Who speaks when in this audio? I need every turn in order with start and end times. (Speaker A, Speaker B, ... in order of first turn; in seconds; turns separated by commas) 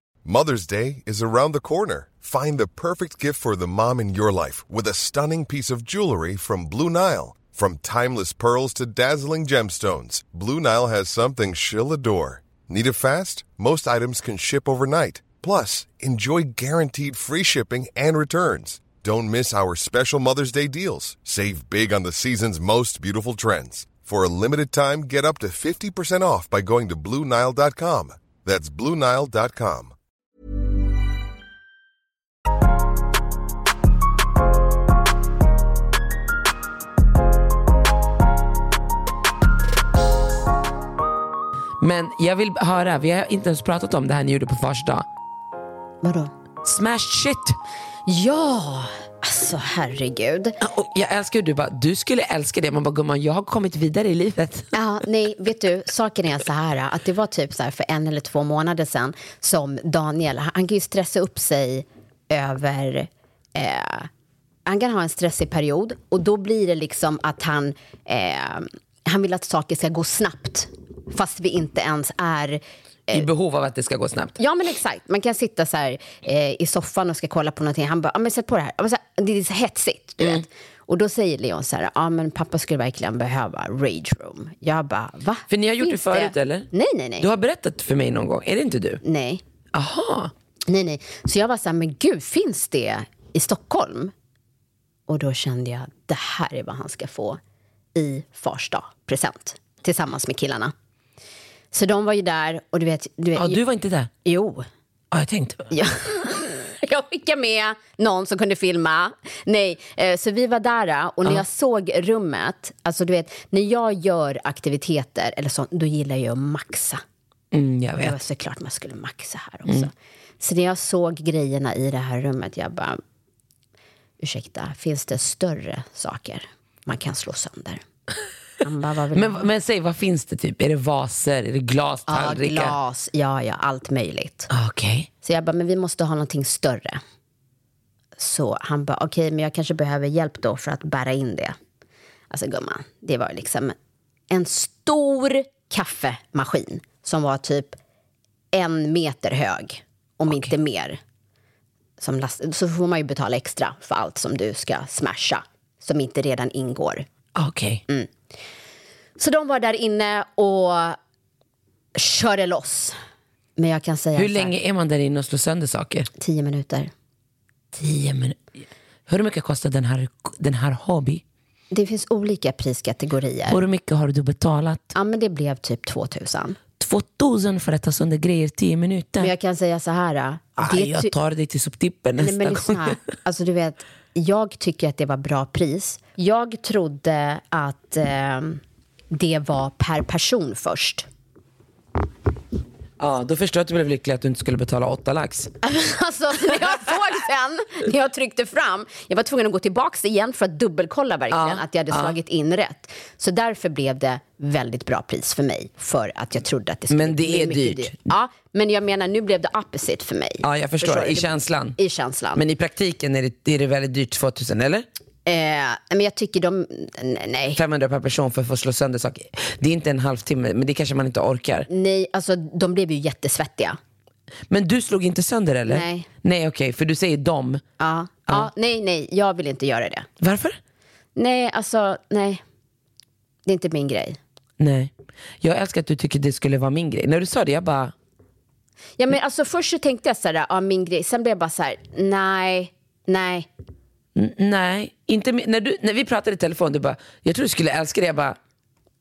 Speaker A: 0.2-29.9, Speaker B: 41.8-45.1, Speaker C: 46.0-46.3, Speaker B: 46.6-47.6, Speaker C: 48.1-50.6, Speaker B: 50.6-54.7, Speaker C: 54.7-64.1, Speaker C: 64.7-73.2, Speaker B: 73.1-74.4, Speaker C: 74.4-87.3, Speaker B: 80.2-80.5, Speaker B: 85.5-89.0, Speaker C: 89.0-89.4, Speaker B: 89.7-90.3, Speaker C: 90.7-94.1, Speaker C: 95.1-97.4, Speaker C: 98.0-100.7, Speaker C: 101.7-103.6, Speaker B: 103.4-104.1, Speaker C: 104.2-104.7, Speaker B: 105.1-105.7, Speaker C: 105.7-117.0, Speaker B: 117.5-118.2, Speaker C: 118.0-123.0, Speaker C: 124.2-127.8, Speaker C: 128.6-129.4, Speaker B: 129.1-132.8, Speaker C: 132.1-134.5, Speaker B: 134.5-135.1, Speaker C: 135.2-137.0, Speaker C: 138.2-141.6, Speaker C: 142.3-143.8, Speaker C: 144.3-147.8, Speaker C: 148.5-151.0, Speaker C: 152.0-157.1, Speaker B: 157.4-157.8, Speaker C: 159.2-161.0, Speaker C: 162.0-163.0, Speaker C: 163.6-164.5, Speaker B: 164.2-166.1, Speaker C: 166.2-166.9, Speaker B: 167.7-168.4, Speaker B: 169.1-171.2, Speaker C: 171.7-173.6, Speaker B: 173.5-174.9, Speaker C: 174.9-176.6, Speaker B: 176.8-179.3, Speaker C: 179.2-181.1, Speaker B: 180.6-183.0, Speaker C: 182.2-191.1, Speaker B: 193.0-195.5, Speaker C: 195.6-212.4, Speaker B: 201.3-202.2, Speaker B: 206.9-208.1, Speaker B: 210.4-211.8, Speaker B: 212.3-214.9, Speaker C: 215.3-217.6, Speaker B: 217.6-221.7, Speaker C: 221.7-223.8, Speaker B: 224.5-227.6, Speaker C: 225.7-226.1, Speaker C: 227.8-230.1, Speaker B: 230.2-230.6, Speaker C: 231.2-232.4, Speaker C: 233.5-234.2, Speaker B: 234.6-234.9, Speaker B: 235.4-237.9, Speaker C: 239.0-243.5, Speaker B: 244.2-248.4